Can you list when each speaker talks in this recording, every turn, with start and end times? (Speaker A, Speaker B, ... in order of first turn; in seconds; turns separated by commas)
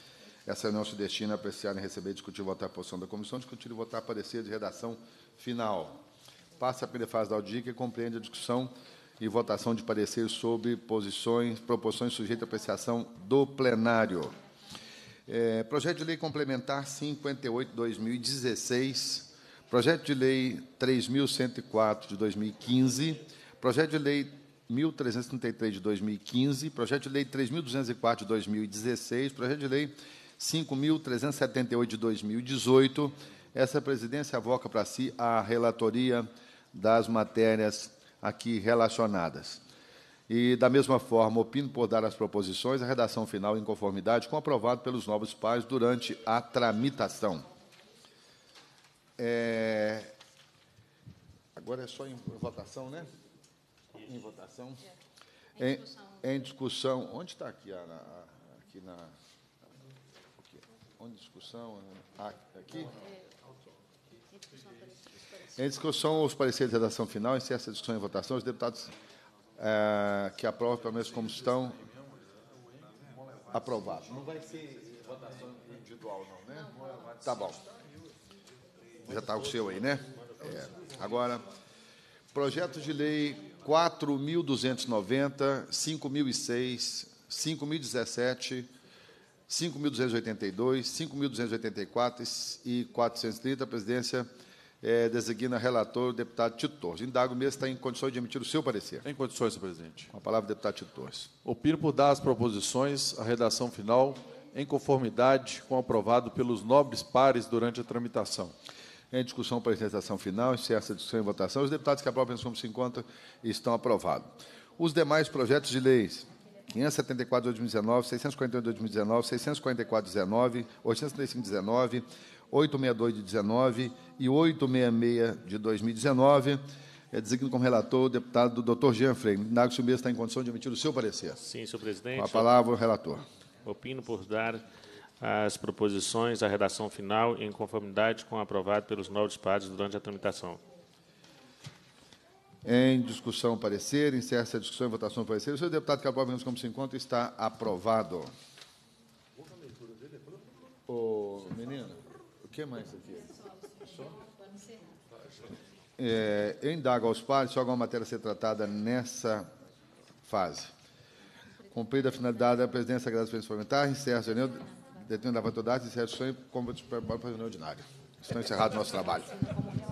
Speaker A: 0.5-6.0, Speaker A: 6.6-14.3, Speaker A: 15.3-39.6, Speaker A: 40.3-47.5, Speaker A: 49.2-50.1, Speaker A: 51.5-53.1, Speaker A: 54.0-54.8, Speaker A: 55.6-59.1, Speaker A: 60.4-62.9, Speaker A: 65.5-68.9, Speaker A: 69.6-71.8, Speaker A: 73.5-77.6, Speaker A: 79.0-81.4, Speaker A: 82.3-88.7, Speaker A: 89.5-94.3, Speaker A: 94.8-99.0, Speaker B: 99.0-100.1, Speaker A: 100.1-101.3, Speaker B: 101.4-108.5, Speaker A: 109.1-126.6, Speaker A: 127.1-131.4, Speaker C: 131.4-132.6, Speaker A: 132.1-133.2, Speaker C: 133.6-134.6, Speaker C: 135.2-140.6, Speaker A: 142.6-148.3, Speaker A: 150.9-153.3, Speaker A: 156.0-159.5, Speaker A: 160.2-160.7, Speaker A: 161.7-169.4